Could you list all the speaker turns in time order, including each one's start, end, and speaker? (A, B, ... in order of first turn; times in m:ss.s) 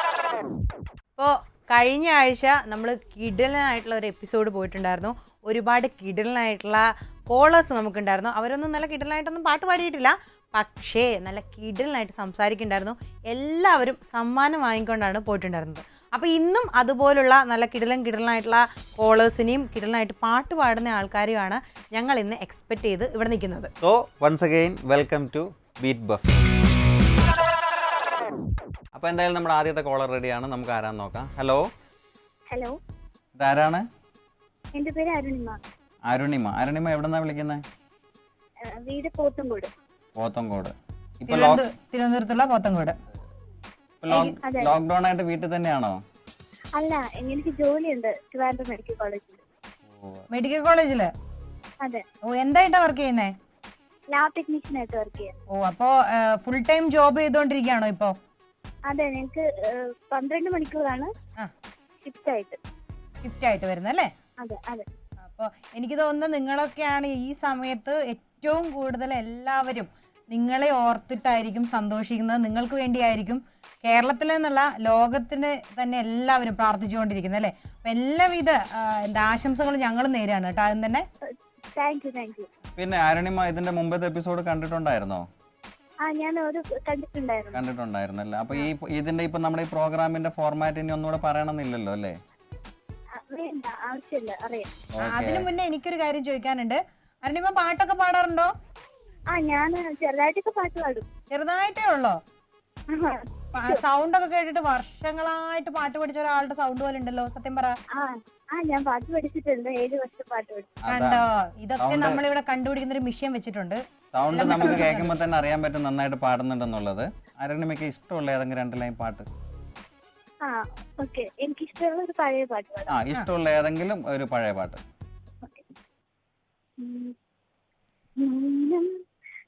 0:01.2-0:23.7 A
0:23.8-0:26.2 B
0:28.9-0:31.7 B
0:32.5-0:32.8 C
0:33.4-0:33.8 B
0:34.7-0:35.6 C
0:36.1-0:37.6 B
0:38.7-0:39.7 C
0:40.2-0:41.6 B
0:41.3-0:43.0 A
0:44.0-0:46.0 B
0:44.1-0:44.3 A
0:44.4-0:44.7 C
0:46.8-0:49.4 C
0:49.8-0:50.3 B
0:50.3-0:51.1 A
0:52.3-0:53.3 A
0:54.1-0:55.3 C
0:55.5-0:58.1 A
0:58.9-1:01.1 C
1:02.0-1:02.6 C
1:03.2-1:04.1 A
1:04.4-1:04.8 C
1:05.2-1:21.0 A
1:21.2-1:22.5 C
1:22.8-1:25.2 B
1:26.0-1:27.6 C
1:27.5-1:32.2 B
1:33.1-1:34.7 C
1:35.0-1:35.5 B
1:35.0-1:38.5 A
1:39.3-1:41.1 C
1:41.3-1:42.2 A
1:42.9-1:43.8 C
1:43.5-1:47.7 A
1:47.9-1:50.7 C
1:50.9-1:51.3 B
1:50.9-1:53.8 A
1:51.8-1:52.2 B
1:54.1-1:59.3 B
1:54.3-1:55.1 A
2:00.4-2:03.0 C
2:02.9-2:04.8 B
2:06.8-2:07.1 C
2:08.2-2:08.9 C